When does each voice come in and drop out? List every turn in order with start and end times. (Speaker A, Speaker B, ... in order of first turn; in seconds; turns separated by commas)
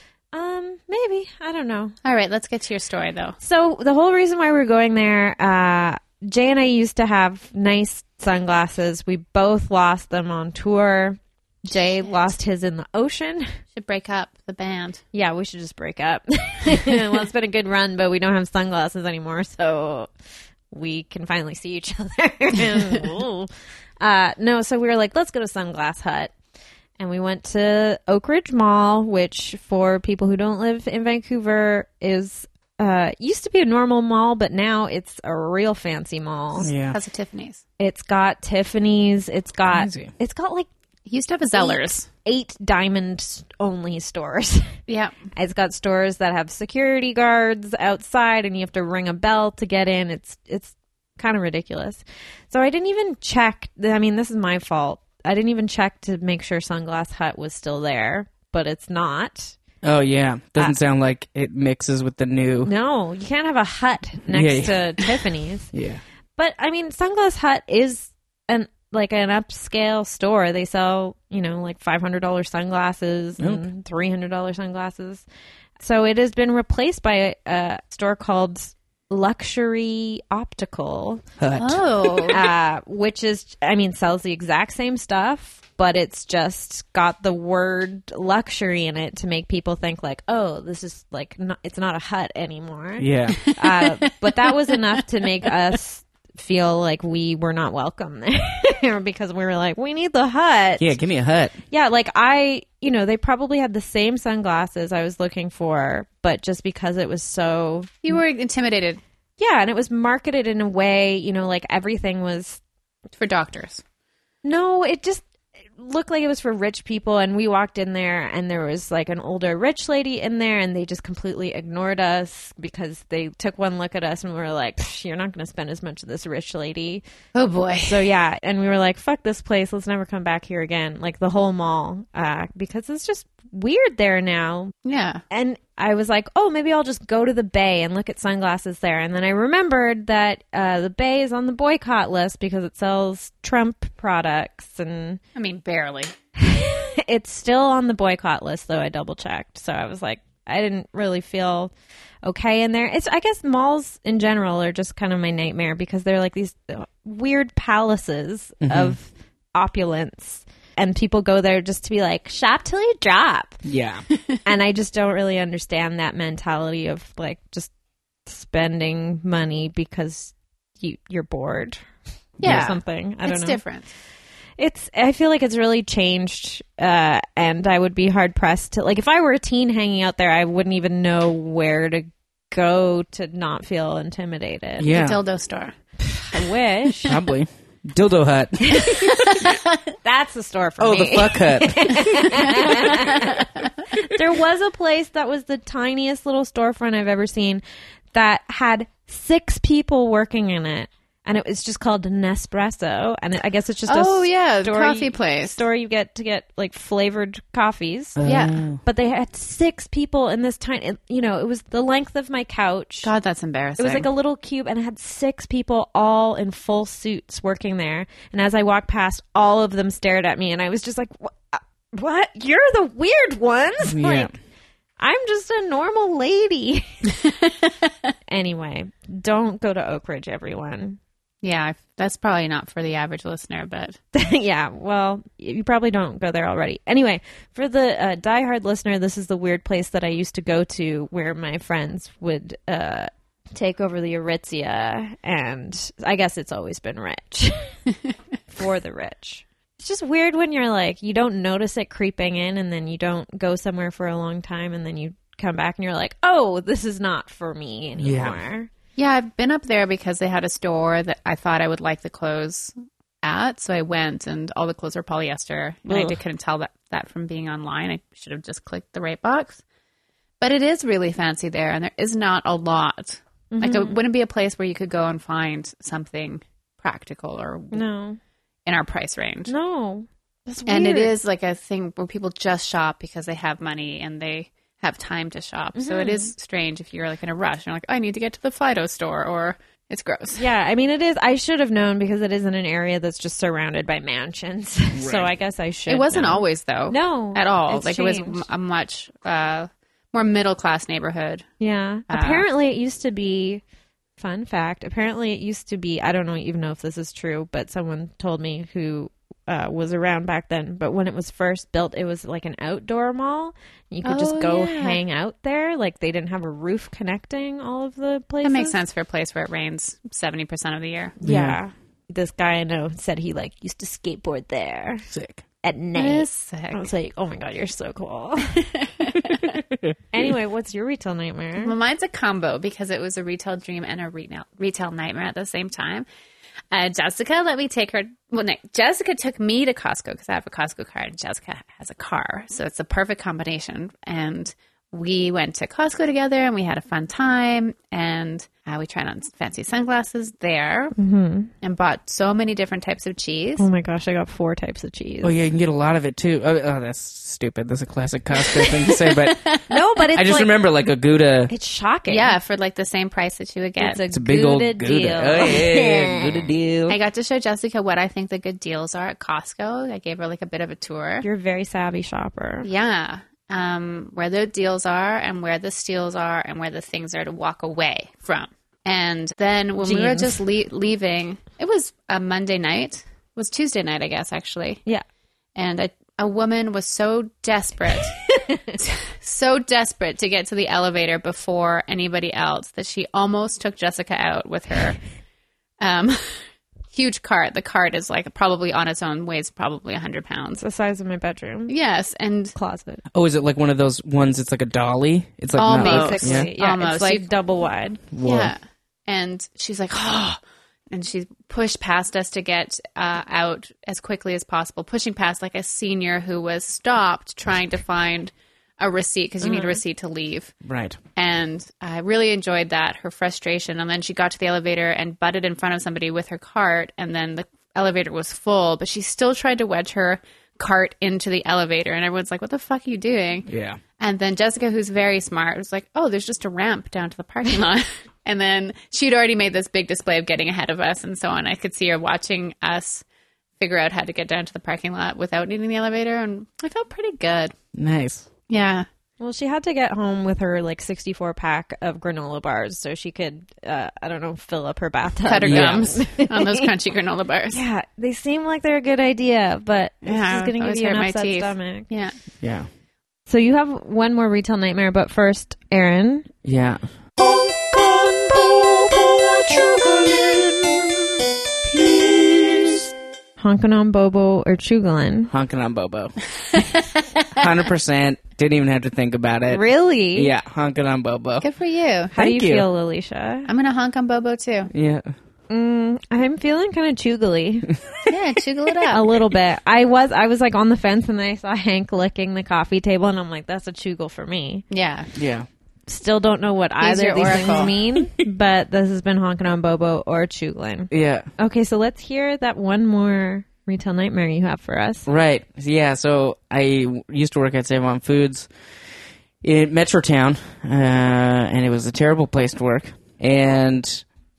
Speaker A: 0.3-2.0, Speaker B: 2.0-3.4, Speaker A: 3.4-13.5, Speaker B: 11.7-12.3, Speaker B: 13.8-15.0, Speaker A: 15.1-20.1, Speaker A: 20.7-23.5, Speaker A: 24.0-26.3, Speaker A: 27.0-36.7, Speaker C: 36.6-37.0, Speaker B: 36.9-37.6, Speaker A: 37.8-40.7, Speaker C: 39.7-40.1, Speaker B: 41.1-42.1, Speaker A: 41.5-44.7, Speaker B: 44.9-45.1, Speaker A: 45.3-59.6, Speaker C: 59.8-62.7, Speaker A: 62.6-65.7, Speaker C: 64.3-65.1, Speaker C: 65.7-66.0, Speaker A: 66.4-75.2, Speaker C: 73.4-73.6, Speaker A: 75.8-81.2, Speaker C: 81.4-82.2, Speaker B: 81.6-82.4, Speaker A: 82.3-100.9, Speaker C: 93.0-93.4, Speaker B: 93.5-93.9, Speaker C: 100.8-101.5, Speaker A: 101.7-108.1, Speaker B: 108.0-109.0, Speaker A: 109.4-112.6, Speaker B: 113.1-113.8, Speaker A: 114.4-127.0, Speaker B: 127.3-128.0, Speaker A: 127.8-134.7, Speaker B: 134.8-135.2, Speaker A: 135.3-145.2, Speaker B: 145.3-146.1, Speaker A: 146.3-151.7, Speaker A: 152.2-163.6, Speaker C: 158.6-158.9, Speaker C: 163.6-164.0, Speaker A: 164.4-167.7, Speaker A: 168.2-171.8, Speaker B: 172.4-173.9, Speaker C: 172.4-172.7, Speaker A: 172.4-173.6, Speaker A: 174.6-184.9, Speaker C: 184.8-185.2, Speaker B: 184.9-185.7, Speaker A: 186.2-187.2, Speaker C: 187.0-189.5, Speaker A: 188.7-189.3, Speaker A: 190.0-197.6, Speaker C: 190.8-192.7, Speaker A: 198.1-208.2, Speaker B: 203.9-205.6, Speaker C: 208.2-208.8, Speaker B: 208.2-208.5, Speaker A: 208.8-213.1, Speaker B: 213.0-214.1, Speaker A: 213.8-224.3, Speaker C: 223.8-224.3, Speaker A: 225.0-227.1, Speaker A: 228.3-231.0, Speaker B: 231.4-234.0, Speaker A: 234.1-247.8, Speaker A: 248.5-258.7, Speaker C: 258.0-258.4, Speaker B: 258.9-269.6, Speaker A: 265.9-266.1, Speaker B: 270.4-277.8, Speaker A: 273.5-274.0, Speaker A: 277.7-278.2, Speaker B: 278.6-279.5, Speaker A: 279.5-281.1, Speaker B: 280.6-290.4, Speaker A: 285.7-286.3, Speaker A: 290.4-298.4, Speaker C: 294.9-295.3, Speaker B: 295.9-301.5, Speaker A: 301.6-303.6, Speaker B: 302.1-302.4, Speaker A: 304.2-318.8, Speaker B: 314.0-315.0, Speaker B: 318.4-321.1, Speaker A: 321.2-325.1, Speaker C: 321.2-321.6, Speaker C: 325.1-325.4, Speaker A: 325.6-328.7, Speaker B: 325.9-326.9, Speaker B: 328.8-329.6, Speaker A: 330.1-331.7, Speaker B: 331.6-336.1, Speaker B: 336.7-350.9, Speaker A: 350.9-351.5, Speaker B: 351.6-353.7, Speaker A: 353.6-355.3, Speaker C: 355.2-359.4, Speaker B: 358.5-359.8, Speaker A: 359.7-360.5, Speaker C: 360.1-361.5, Speaker A: 361.5-362.4, Speaker B: 362.1-364.0, Speaker A: 363.8-366.4, Speaker C: 364.1-367.0, Speaker B: 366.9-371.2, Speaker A: 371.2-372.7, Speaker B: 372.6-384.8, Speaker A: 379.8-380.4, Speaker B: 385.6-388.2, Speaker A: 388.3-388.8, Speaker B: 388.8-395.0, Speaker B: 395.8-396.4, Speaker B: 396.9-400.6, Speaker A: 400.6-401.7, Speaker B: 401.7-402.6, Speaker A: 402.6-403.0, Speaker C: 403.1-406.5, Speaker B: 405.6-407.3, Speaker A: 405.7-408.0, Speaker C: 408.1-408.5, Speaker B: 408.2-410.4, Speaker B: 410.9-420.5, Speaker A: 419.4-419.8, Speaker C: 420.6-421.0, Speaker B: 421.2-433.5, Speaker C: 433.5-433.8, Speaker B: 434.0-443.0, Speaker B: 443.6-447.5, Speaker C: 447.7-448.3, Speaker B: 448.5-448.9, Speaker A: 449.2-456.7, Speaker B: 455.2-457.6, Speaker C: 455.4-455.9, Speaker A: 457.5-461.9, Speaker B: 460.0-462.1, Speaker C: 462.4-462.7, Speaker A: 463.3-466.3, Speaker C: 466.4-466.8, Speaker A: 473.4-475.3, Speaker C: 475.3-476.1, Speaker B: 476.6-477.0, Speaker C: 477.4-479.6, Speaker A: 479.5-480.3, Speaker C: 480.1-481.4, Speaker B: 481.4-482.1, Speaker A: 482.1-483.5, Speaker C: 482.1-482.6, Speaker B: 483.5-484.7, Speaker C: 484.7-485.1, Speaker A: 485.5-487.8, Speaker B: 488.1-489.1, Speaker A: 488.8-494.6, Speaker B: 494.7-495.1, Speaker C: 495.1-495.5, Speaker A: 495.9-505.1, Speaker B: 496.8-497.7, Speaker C: 500.9-501.3, Speaker C: 505.1-508.5, Speaker C: 509.4-514.0